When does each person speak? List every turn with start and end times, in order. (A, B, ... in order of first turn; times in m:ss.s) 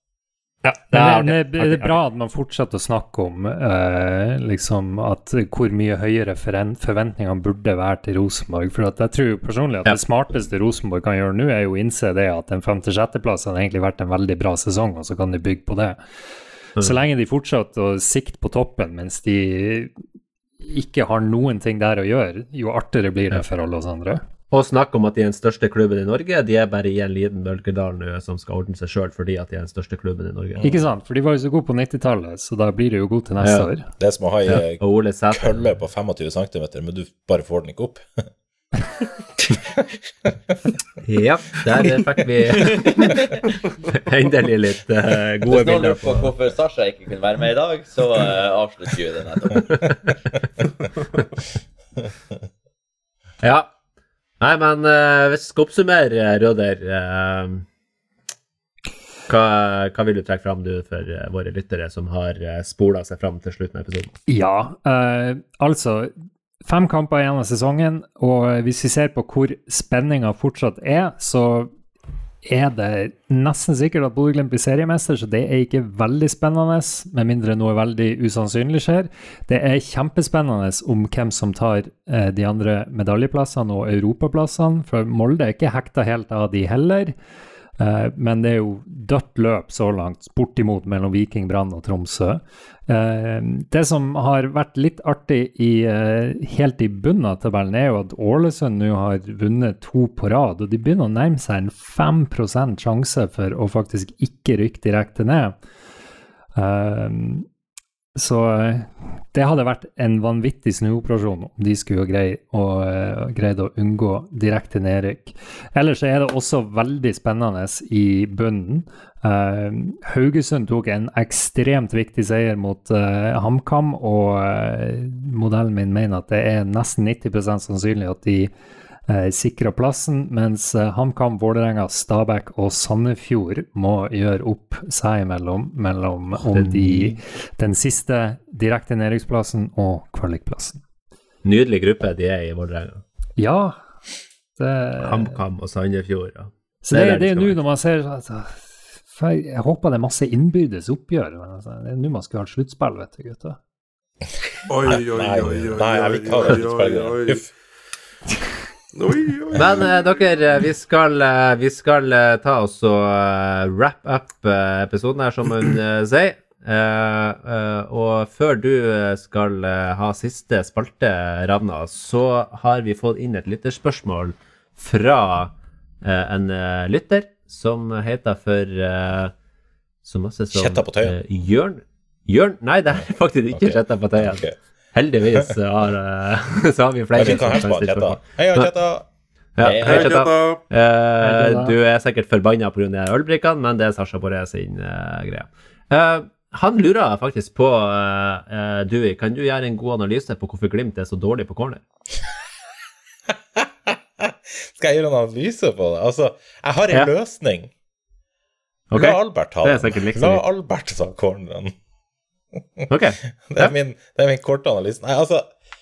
0:00.6-0:01.9 A
0:00.9-0:16.0 B
0:16.8-0:19.9 B
0:20.6-0:24.2 B
0:24.5-0:30.7 A
0:30.6-0:30.8 C
0:30.6-0:33.8 B
0:33.4-0:33.7 A
0:34.0-0:38.0 C
0:34.4-0:35.7 A
0:38.8-0:39.0 C
0:41.0-0:43.1 A
0:42.5-0:43.2 D
0:43.9-0:46.3 A
0:45.5-0:50.0 D
0:53.4-0:53.7 A
0:54.4-0:57.6 A
0:59.3-1:04.1 A
1:04.3-1:06.1 B
1:06.6-1:11.7 B
1:12.4-1:27.1 B
1:27.8-1:45.6 B
1:46.5-1:47.4 B
1:48.2-2:08.5 B
2:09.1-2:20.8 B
2:16.3-2:17.2 A
2:21.4-2:23.0 A
2:23.4-2:23.8 B
2:24.6-2:25.4 B
2:25.0-2:27.6 A
2:26.8-2:33.6 B
2:34.7-2:37.5 E
2:34.8-2:37.5 C
2:38.9-2:40.1 E
2:39.5-2:59.3 A
3:00.0-3:08.7 A
3:00.5-3:01.2 C
3:03.5-3:04.5 C
3:07.1-3:09.0 C
3:09.6-3:21.8 A
3:09.6-3:10.1 D
3:09.7-3:10.1 C
3:09.8-3:10.6 E
3:11.2-3:11.7 B
3:23.6-3:27.7 C
3:28.9-3:30.4 A
3:28.9-3:31.7 C
3:32.9-3:33.7 A
3:33.5-3:35.5 C